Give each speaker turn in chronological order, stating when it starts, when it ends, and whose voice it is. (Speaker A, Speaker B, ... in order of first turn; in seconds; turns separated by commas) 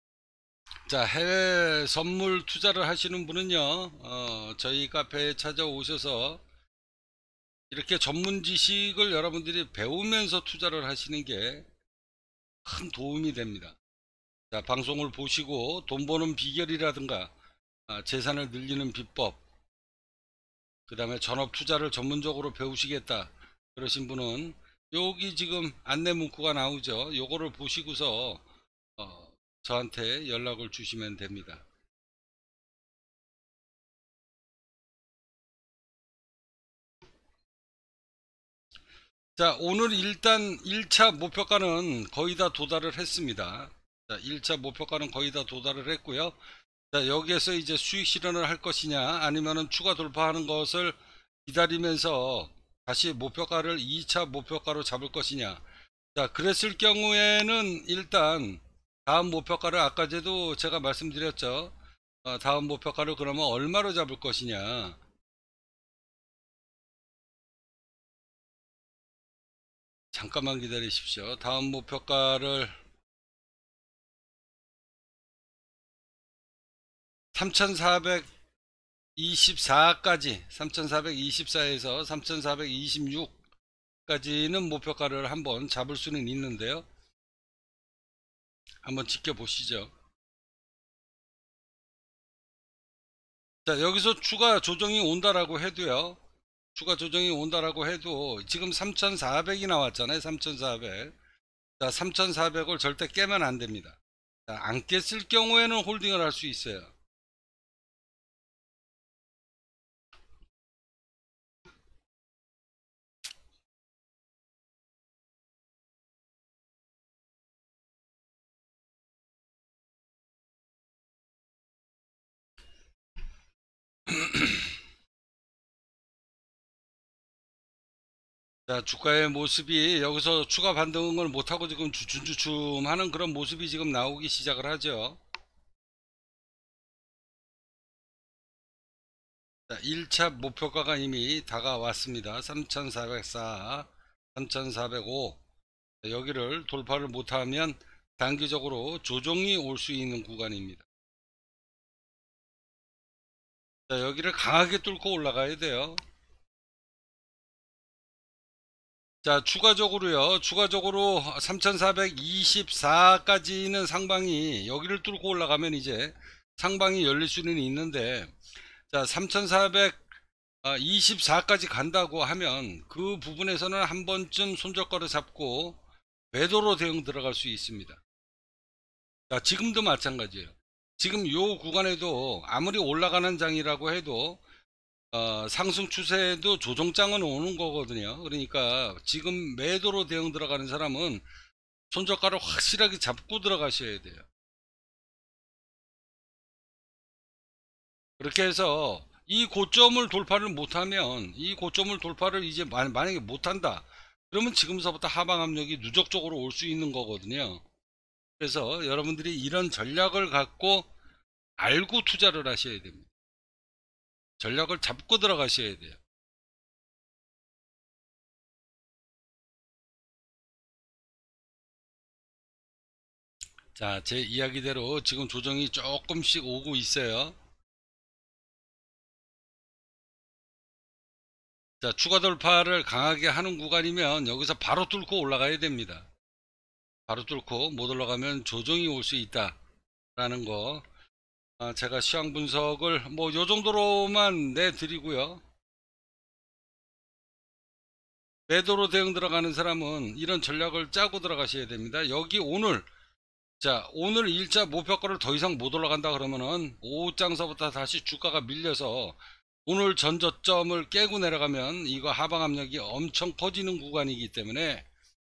Speaker A: 0.8-6.4, Speaker A: 7.7-11.7, Speaker A: 12.6-13.8, Speaker A: 14.5-17.3, Speaker A: 17.9-19.4, Speaker A: 20.9-28.4, Speaker A: 29.0-31.6, Speaker A: 39.4-46.4, Speaker A: 46.9-55.6, Speaker A: 56.1-65.0, Speaker A: 70.1-72.8, Speaker A: 77.3-78.3, Speaker A: 79.2-83.4, Speaker A: 84.0-86.8, Speaker A: 88.8-89.9, Speaker A: 93.6-96.2, Speaker A: 96.7-101.2, Speaker A: 101.8-106.9, Speaker A: 124.1-124.6, Speaker A: 128.7-135.2, Speaker A: 139.7-145.4, Speaker A: 146.0-150.8, Speaker A: 153.9-156.0, Speaker A: 159.2-168.3, Speaker A: 168.9-170.0, Speaker A: 170.6-175.8, Speaker A: 176.3-178.0, Speaker A: 179.3-184.4, Speaker A: 185.1-191.2, Speaker A: 191.9-194.3, Speaker A: 198.2-207.6, Speaker A: 208.4-210.9, Speaker A: 211.6-213.1, Speaker A: 214.4-216.0, Speaker A: 223.7-227.3, Speaker A: 231.8-236.1, Speaker A: 237.1-239.6, Speaker A: 240.2-240.8, Speaker A: 241.6-245.4, Speaker A: 248.5-252.9, Speaker A: 253.6-264.9